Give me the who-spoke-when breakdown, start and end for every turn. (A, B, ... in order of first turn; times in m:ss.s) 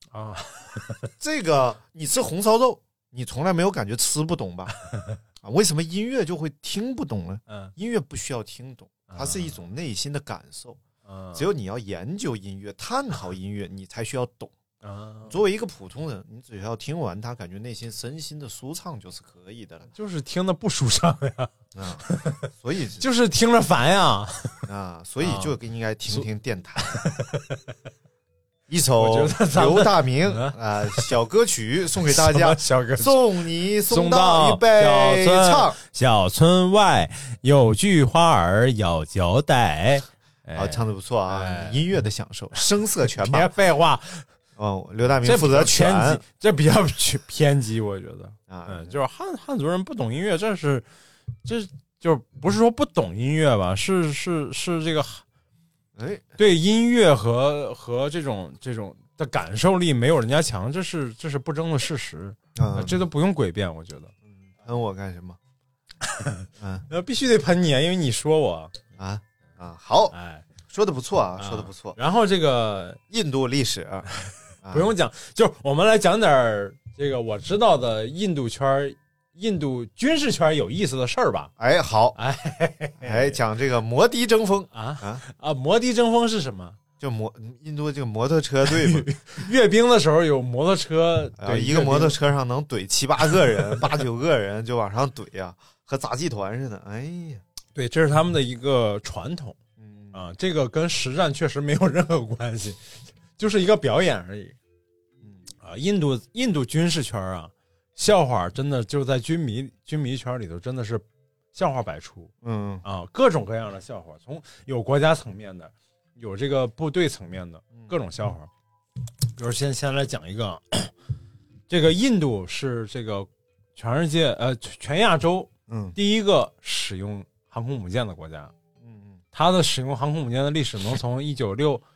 0:00.1-0:01.1 A
0:01.2-0:04.7 B
0:05.4-0:10.8 B
0:09.1-0:09.6 A
0:11.0-0:11.4 A
0:11.3-0:14.5 B
0:14.8-0:15.4 A
0:15.3-0:19.9 B
0:19.9-0:21.5 A
0:21.7-0:23.0 B
0:22.1-0:22.4 A
0:23.0-0:24.6 A
0:24.6-0:27.0 B
0:25.2-0:25.5 A
0:26.8-0:27.6 A
0:28.7-0:35.8 B
0:29.0-0:31.1 A
0:32.1-0:33.2 A
0:33.8-0:41.8 A
0:40.5-0:43.5 B
0:43.1-0:44.2 A
0:44.6-0:46.2 B
0:45.2-0:50.8 A
0:48.5-0:49.0 B
0:51.4-0:55.2 A
0:56.0-0:56.3 B
0:56.4-1:04.1 A
1:02.6-1:03.0 B
1:04.4-1:05.4 B
1:06.0-1:08.7 A
1:06.6-1:06.8 B
1:09.0-1:10.1 B
1:10.1-1:10.4 A
1:10.7-1:12.0 B
1:11.4-1:13.0 A
1:13.1-1:14.1 B
1:14.6-1:14.9 B
1:14.7-1:21.5 A
1:21.6-1:22.2 B
1:22.1-1:23.4 A
1:23.0-1:25.2 B
1:24.7-1:26.8 A
1:27.0-1:29.1 B
1:28.6-1:32.2 A
1:31.4-1:37.4 B
1:37.7-1:39.6 A
1:39.8-1:40.2 B
1:40.1-1:42.8 A
1:43.4-1:44.6 A
1:45.6-1:52.3 A
1:52.4-1:52.8 B
1:52.8-1:58.5 A
1:59.4-2:00.9 A
2:01.7-2:08.5 A
2:05.7-2:06.0 B
2:08.8-2:09.2 B
2:09.3-2:11.8 A